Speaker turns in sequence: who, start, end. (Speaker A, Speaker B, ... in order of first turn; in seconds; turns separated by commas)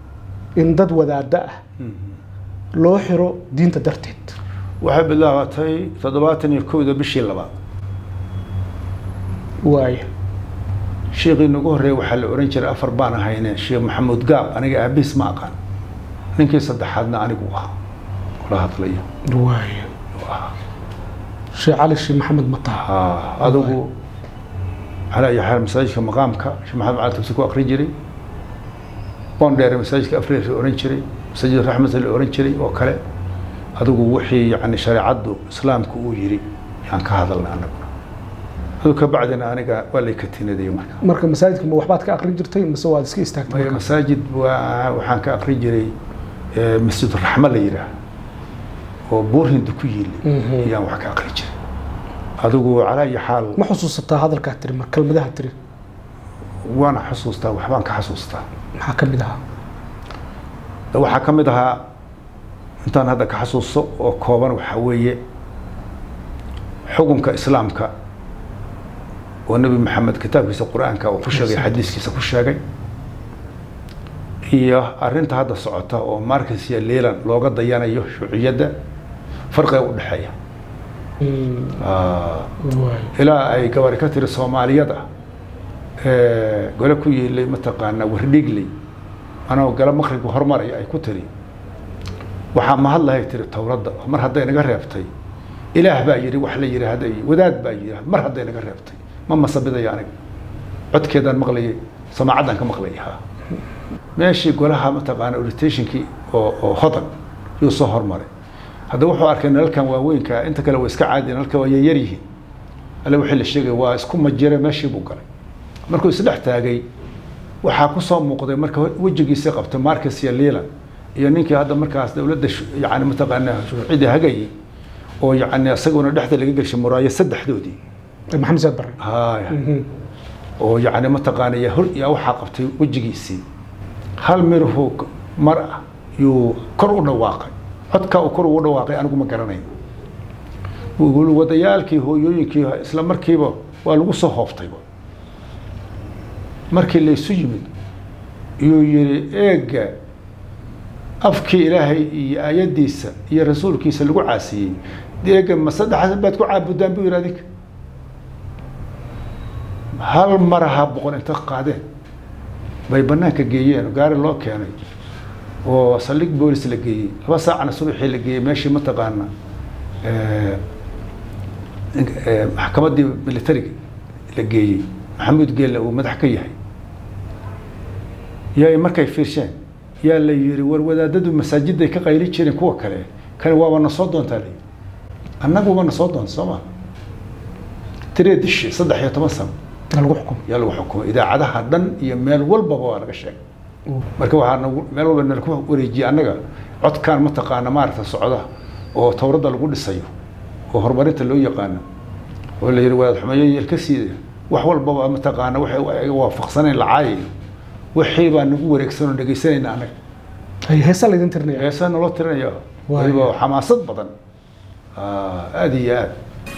Speaker A: 0.6-1.5, Speaker B: 1.8-2.1, Speaker A: 2.8-4.3, Speaker B: 4.8-7.5, Speaker A: 9.6-10.1, Speaker B: 11.1-15.6, Speaker B: 16.3-17.7, Speaker B: 18.4-19.0, Speaker A: 19.3-19.9, Speaker B: 20.2-20.5, Speaker A: 21.5-22.9, Speaker B: 22.8-23.9, Speaker A: 23.4-23.8, Speaker B: 25.1-27.9, Speaker B: 29.4-33.0, Speaker B: 33.8-37.9, Speaker B: 38.8-41.0, Speaker A: 41.0-43.8, Speaker B: 43.5-45.9, Speaker B: 46.5-47.9, Speaker B: 49.1-51.5, Speaker A: 50.2-50.7, Speaker B: 52.4-53.6, Speaker A: 53.5-55.5, Speaker B: 56.6-58.4, Speaker A: 58.8-59.4, Speaker B: 60.9-61.8, Speaker B: 62.9-65.2, Speaker B: 66.9-67.9, Speaker B: 69.5-72.6, Speaker B: 74.5-78.7, Speaker B: 79.5-80.3, Speaker A: 81.2-81.8, Speaker B: 81.8-82.5, Speaker A: 82.6-83.1, Speaker B: 83.1-85.0, Speaker B: 86.0-88.7, Speaker B: 89.5-91.3, Speaker B: 92.5-95.1, Speaker B: 95.7-100.1, Speaker B: 100.9-103.2, Speaker B: 104.2-108.3, Speaker B: 108.9-112.2, Speaker B: 113.0-115.2, Speaker B: 115.9-116.8, Speaker B: 117.6-120.7, Speaker B: 121.2-124.5, Speaker B: 125.2-127.8, Speaker A: 128.3-129.0, Speaker B: 129.0-129.6, Speaker A: 129.5-129.8, Speaker B: 130.6-133.4, Speaker B: 134.2-139.7, Speaker B: 141.0-144.8, Speaker B: 146.7-147.7, Speaker B: 148.6-149.9, Speaker B: 151.2-157.4, Speaker B: 160.0-161.8, Speaker B: 162.9-164.8, Speaker B: 165.6-169.3, Speaker B: 170.0-170.6, Speaker B: 171.9-173.8, Speaker B: 174.3-176.6, Speaker B: 178.6-184.6, Speaker B: 185.4-186.6, Speaker B: 188.1-189.5, Speaker A: 189.9-190.4, Speaker B: 190.5-193.4, Speaker B: 194.2-200.1, Speaker B: 200.7-201.8, Speaker B: 202.6-207.3, Speaker B: 207.9-209.9, Speaker A: 210.7-211.7, Speaker B: 211.5-214.1, Speaker A: 212.9-213.3, Speaker B: 214.9-216.2